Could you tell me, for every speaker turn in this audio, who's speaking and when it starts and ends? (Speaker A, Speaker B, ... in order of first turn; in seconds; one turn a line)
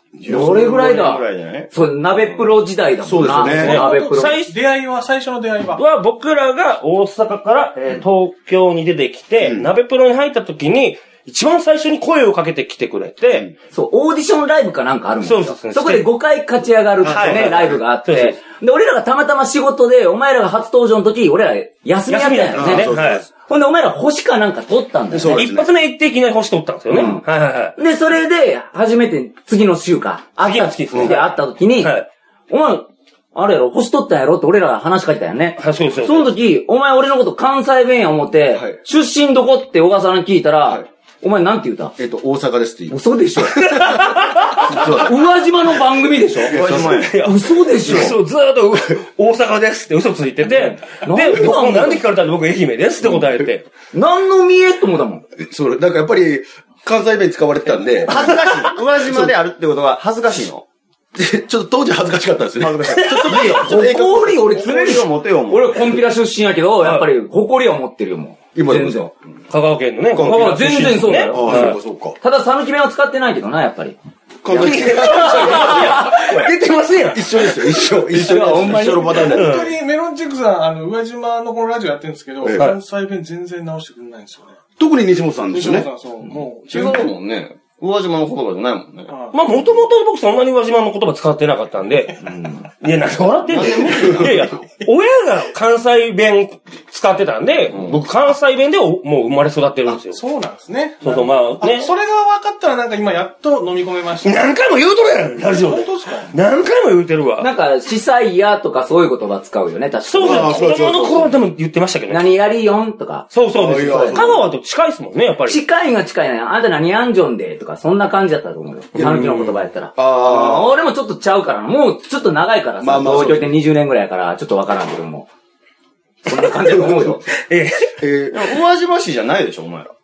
Speaker A: 0.2-0.5
Speaker B: 0.2-2.5
Speaker C: 0.2-4.4
Speaker A: 3.0-3.8
Speaker D: 3.4-5.8
Speaker E: 3.5-4.5
Speaker E: 5.8-13.5
Speaker A: 9.4-9.7
Speaker C: 13.7-22.9
Speaker E: 15.2-16.1
Speaker A: 17.0-17.7
Speaker E: 17.0-18.4
Speaker E: 22.1-23.2
Speaker A: 22.5-23.2
Speaker C: 23.5-25.5
Speaker A: 25.1-25.7
Speaker E: 25.2-27.7
Speaker C: 26.9-27.2
Speaker C: 27.8-41.9
Speaker E: 30.4-32.1
Speaker A: 30.9-31.2
Speaker E: 35.6-36.3
Speaker A: 42.0-43.0
Speaker C: 42.9-43.8
Speaker E: 43.5-45.0
Speaker A: 43.5-45.2
Speaker C: 44.7-46.6
Speaker A: 46.4-47.2
Speaker B: 46.5-47.1
Speaker E: 46.8-53.7
Speaker C: 47.2-48.1
Speaker A: 47.8-48.1
Speaker C: 50.4-52.0
Speaker C: 53.9-55.2
Speaker A: 55.4-58.3
Speaker B: 58.0-60.6
Speaker A: 59.0-59.3
Speaker A: 61.1-64.1
Speaker B: 62.6-65.9
Speaker E: 62.9-63.5
Speaker C: 63.3-69.1
Speaker A: 68.5-69.1
Speaker E: 69.5-71.8
Speaker A: 70.1-72.2
Speaker C: 70.2-74.0
Speaker A: 74.4-76.5
Speaker E: 74.5-77.9
Speaker C: 74.5-76.4
Speaker A: 77.1-79.5
Speaker C: 77.9-79.2
Speaker E: 78.8-79.7
Speaker D: 79.2-84.6
Speaker A: 82.4-82.7
Speaker A: 84.8-85.9
Speaker D: 85.5-87.1
Speaker B: 86.7-89.1
Speaker D: 89.1-89.4
Speaker E: 89.3-100.2
Speaker A: 93.6-94.5
Speaker B: 97.7-98.0
Speaker D: 99.9-104.5
Speaker E: 101.0-101.9
Speaker E: 104.2-107.5
Speaker D: 105.5-106.3
Speaker C: 107.4-110.8
Speaker E: 110.1-112.3
Speaker A: 110.2-111.3
Speaker C: 112.1-114.2
Speaker E: 113.3-115.6
Speaker A: 113.5-114.5
Speaker C: 115.5-125.3
Speaker E: 118.9-119.5
Speaker A: 120.0-120.7
Speaker B: 120.3-120.6
Speaker A: 122.8-123.5
Speaker C: 126.2-127.3
Speaker A: 126.8-127.2
Speaker E: 127.3-127.9
Speaker A: 128.0-128.5
Speaker B: 128.3-129.9